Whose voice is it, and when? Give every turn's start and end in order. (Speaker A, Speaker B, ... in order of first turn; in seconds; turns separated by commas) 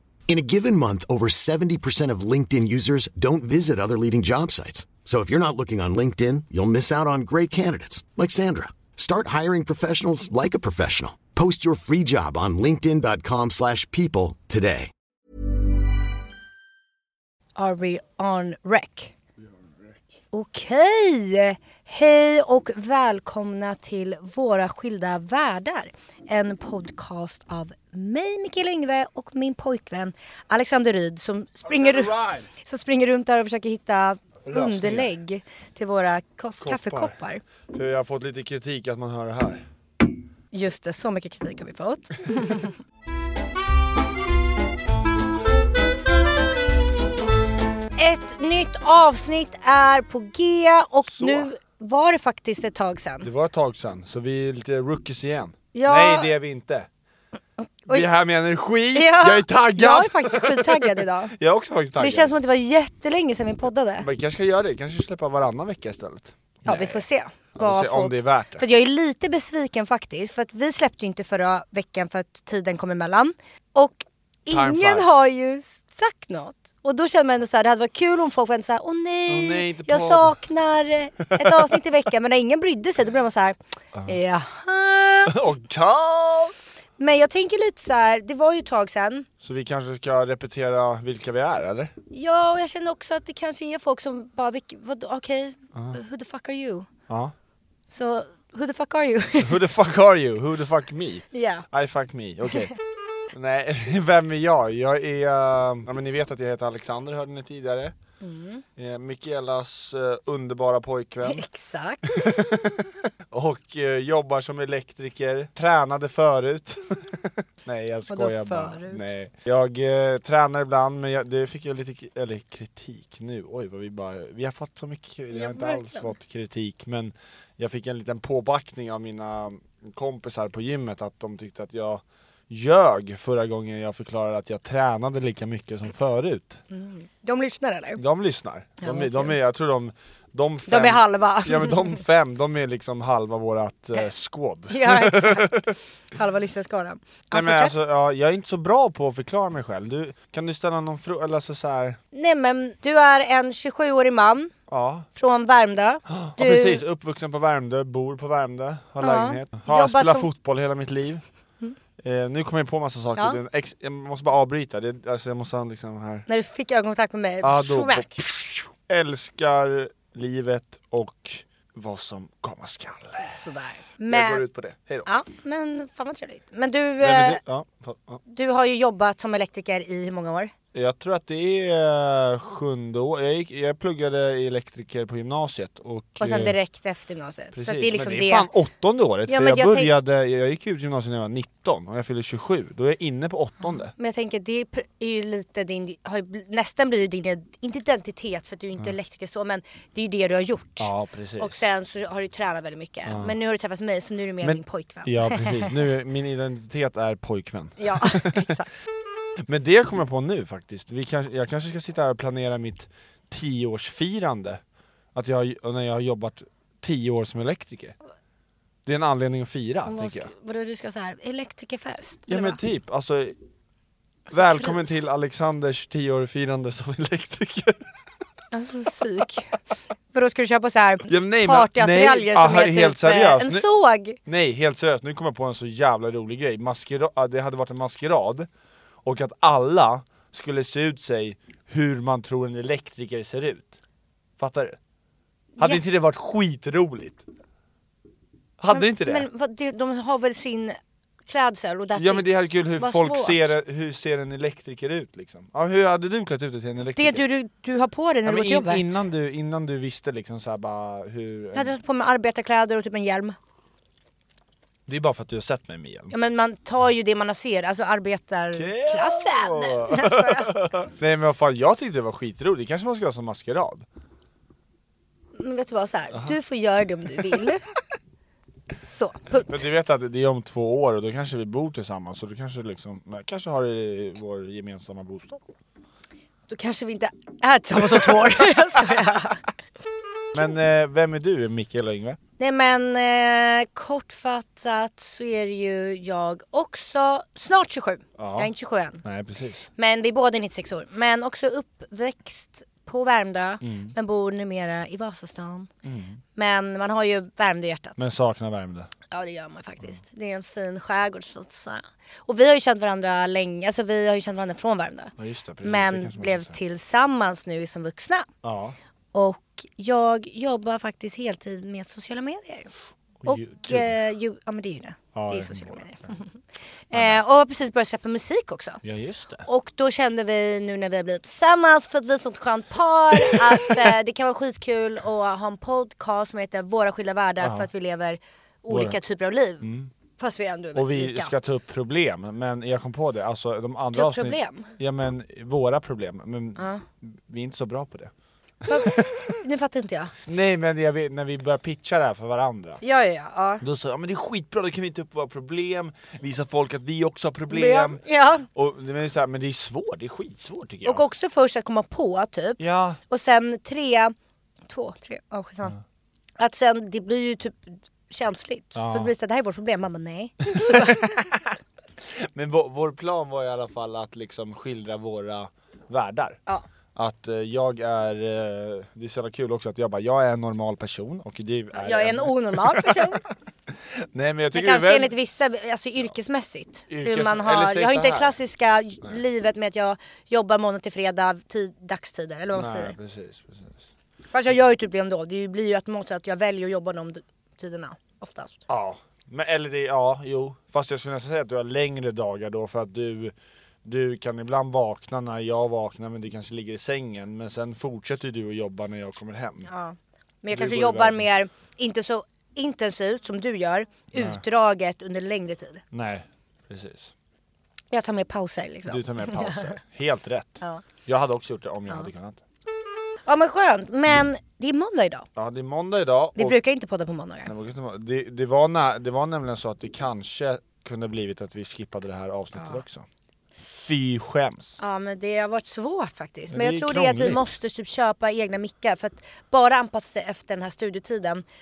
Speaker A: 0.3-14.9, Speaker B: 17.6-19.1, Speaker B: 20.3-37.4, Speaker C: 31.6-32.5, Speaker C: 34.5-35.1, Speaker C: 36.6-37.2, Speaker C: 37.7-39.7, Speaker B: 40.5-42.8, Speaker B: 48.0-53.3, Speaker C: 51.1-51.5, Speaker C: 53.2-56.9, Speaker B: 55.7-56.3, Speaker C: 57.9-62.4, Speaker B: 58.9-61.3, Speaker B: 62.0-64.1, Speaker C: 64.0-67.0, Speaker B: 66.7-85.4, Speaker C: 67.5-68.7, Speaker C: 74.5-75.1, Speaker C: 79.3-80.4, Speaker C: 81.2-81.8, Speaker C: 85.3-86.5, Speaker B: 87.0-89.3, Speaker C: 89.4-91.9, Speaker B: 92.1-96.9, Speaker C: 97.1-97.3, Speaker B: 97.9-99.6, Speaker C: 99.4-102.7, Speaker B: 101.3-101.7, Speaker C: 103.3-108.0, Speaker B: 108.2-108.6, Speaker C: 108.8-111.5, Speaker B: 111.2-112.4, Speaker C: 112.1-136.6, Speaker B: 118.1-119.0, Speaker B: 125.3-126.1, Speaker B: 136.7-138.0, Speaker C: 138.0-145.8, Speaker B: 138.8-139.4, Speaker B: 140.7-142.0, Speaker B: 144.7-145.6, Speaker B: 146.1-147.7, Speaker C: 147.3-152.0, Speaker B: 152.1-154.5, Speaker C: 154.7-155.1, Speaker B: 155.1-156.8, Speaker C: 156.1-161.2, Speaker B: 159.0-160.3, Speaker C: 162.0-166.3, Speaker B: 166.3-168.2, Speaker C: 167.4-173.4, Speaker B: 173.2-174.4, Speaker C: 174.1-175.1, Speaker B: 175.1-177.4, Speaker C: 177.0-178.2, Speaker B: 178.3-180.5, Speaker C: 180.7-186.6, Speaker B: 186.2-188.5, Speaker C: 187.5-193.9, Speaker B: 189.3-189.9, Speaker B: 194.0-205.8, Speaker C: 200.8-201.6, Speaker C: 203.1-203.4, Speaker C: 204.4-208.5, Speaker B: 207.8-208.7, Speaker C: 209.5-214.6, Speaker C: 215.1-218.0, Speaker C: 218.8-220.3, Speaker B: 219.9-222.6, Speaker C: 222.3-223.4, Speaker C: 224.3-227.9, Speaker B: 224.3-225.0, Speaker B: 228.5-229.6, Speaker B: 230.1-234.2, Speaker C: 231.1-233.7, Speaker C: 234.2-238.5, Speaker C: 239.0-243.8, Speaker C: 244.4-244.8, Speaker B: 245.6-245.8, Speaker C: 245.6-247.2, Speaker C: 248.6-249.3, Speaker B: 248.7-253.5, Speaker C: 251.9-257.2, Speaker B: 256.9-259.0, Speaker C: 258.2-261.8, Speaker B: 261.5-263.4, Speaker C: 264.9-266.1, Speaker B: 266.1-270.6, Speaker C: 268.5-273.9, Speaker B: 275.4-277.6, Speaker C: 276.1-276.4, Speaker B: 278.7-279.7, Speaker C: 279.4-285.4, Speaker B: 286.5-289.5, Speaker C: 290.3-292.2, Speaker B: 292.4-299.0, Speaker C: 298.2-298.5, Speaker C: 299.0-299.7, Speaker B: 299.8-305.7, Speaker C: 303.6-303.9, Speaker C: 305.8-306.2, Speaker B: 306.4-308.0, Speaker C: 308.0-308.9, Speaker B: 309.1-315.1, Speaker C: 315.2-316.6, Speaker B: 315.6-318.3, Speaker C: 318.4-318.8, Speaker B: 319.1-322.7, Speaker C: 323.2-324.0, Speaker B: 323.3-326.3, Speaker C: 325.1-326.1, Speaker B: 326.9-328.8, Speaker C: 326.9-327.2, Speaker C: 328.8-329.5, Speaker B: 329.4-339.7, Speaker C: 333.2-333.9, Speaker C: 337.4-337.7, Speaker C: 338.7-339.0, Speaker C: 339.6-339.9, Speaker B: 340.2-341.3, Speaker C: 340.8-348.1, Speaker B: 343.9-344.7, Speaker B: 346.6-346.8, Speaker C: 348.6-349.3, Speaker B: 348.7-350.1, Speaker C: 350.3-352.8, Speaker B: 352.8-353.6, Speaker C: 353.6-361.0, Speaker B: 357.5-358.5, Speaker B: 360.9-364.1, Speaker C: 362.6-363.0, Speaker B: 364.7-365.8, Speaker B: 366.4-371.1, Speaker C: 368.8-369.1, Speaker C: 370.5-376.4, Speaker C: 376.9-383.2, Speaker B: 381.7-383.2, Speaker C: 383.7-385.1, Speaker B: 384.5-392.9, Speaker C: 386.9-388.4, Speaker C: 392.5-393.9, Speaker B: 394.3-398.6, Speaker C: 398.7-409.7, Speaker B: 409.7-415.8, Speaker C: 410.5-411.3, Speaker C: 414.1-414.4, Speaker C: 415.9-417.1, Speaker B: 417.9-419.7, Speaker C: 418.9-422.4, Speaker B: 423.3-425.3, Speaker C: 425.4-426.6, Speaker B: 426.4-427.5, Speaker C: 427.5-433.1, Speaker C: 433.7-434.8, Speaker B: 434.8-441.4, Speaker C: 436.5-437.4